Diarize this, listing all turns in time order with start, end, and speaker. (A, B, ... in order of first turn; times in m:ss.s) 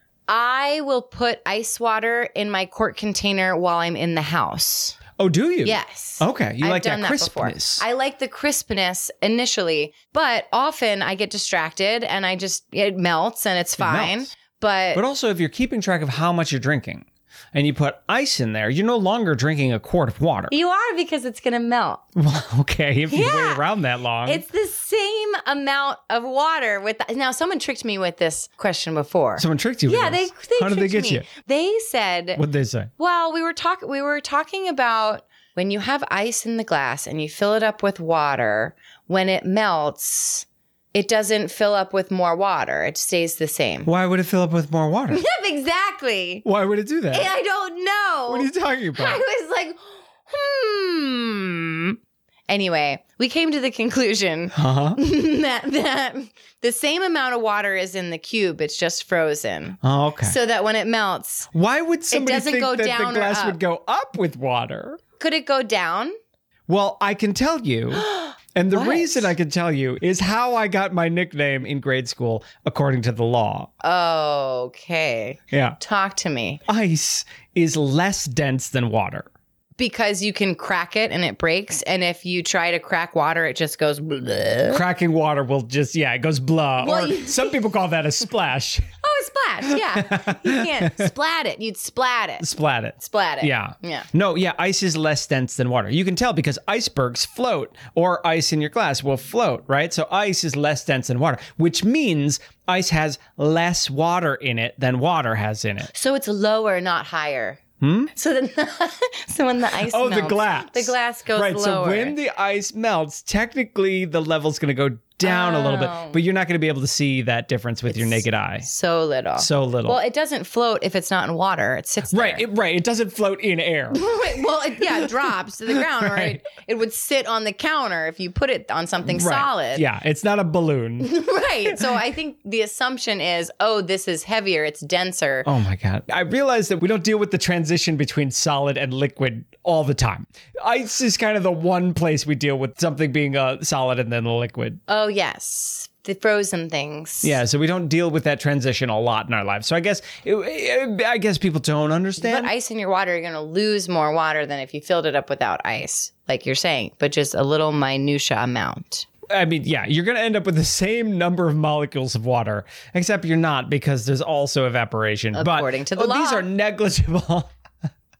0:00.3-0:05.0 A
0:05.2-0:07.8 B
0:05.6-0:15.0 A
0:13.8-0:14.3 B
0:14.9-0:20.5 B
0:20.5-0:22.0 A
0:22.1-0:24.4 B
0:23.1-0:23.7 A
0:24.2-0:32.4 A
0:29.4-0:31.3 B
0:32.4-0:32.9 B
0:33.0-0:43.9 A
0:43.8-0:45.2 B
0:45.1-0:46.4 A
0:46.4-0:47.3 B
0:47.1-1:01.5 A
0:48.3-0:49.2 B
0:54.5-0:55.0 B
0:59.8-1:00.4 B
1:01.5-1:05.0 B
1:02.1-1:03.6 A
1:05.2-1:06.1 A
1:06.7-1:13.7 B
1:08.0-1:09.3 A
1:13.8-1:16.6 A
1:15.5-1:15.8 B
1:16.6-1:19.3 B
1:19.8-1:24.8 A
1:24.7-1:28.9 B
1:26.8-1:27.6 A
1:29.0-1:32.4 A
1:29.7-1:31.1 B
1:32.4-1:45.9 B
1:33.0-1:34.1 A
1:45.9-1:47.6 A
1:47.8-1:48.1 B
1:48.1-1:52.2 A
1:49.9-1:58.7 B
1:55.2-1:56.2 A
1:57.9-2:02.4 A
1:59.4-2:00.0 B
2:02.1-2:04.1 B
2:03.9-2:09.8 A
2:05.7-2:06.4 B
2:09.0-2:11.8 B
2:11.0-2:15.5 A
2:15.4-2:24.8 B
2:24.9-2:27.4 A
2:27.2-2:32.5 B
2:32.2-2:39.1 A
2:39.3-2:47.5 B
2:45.3-2:46.5 A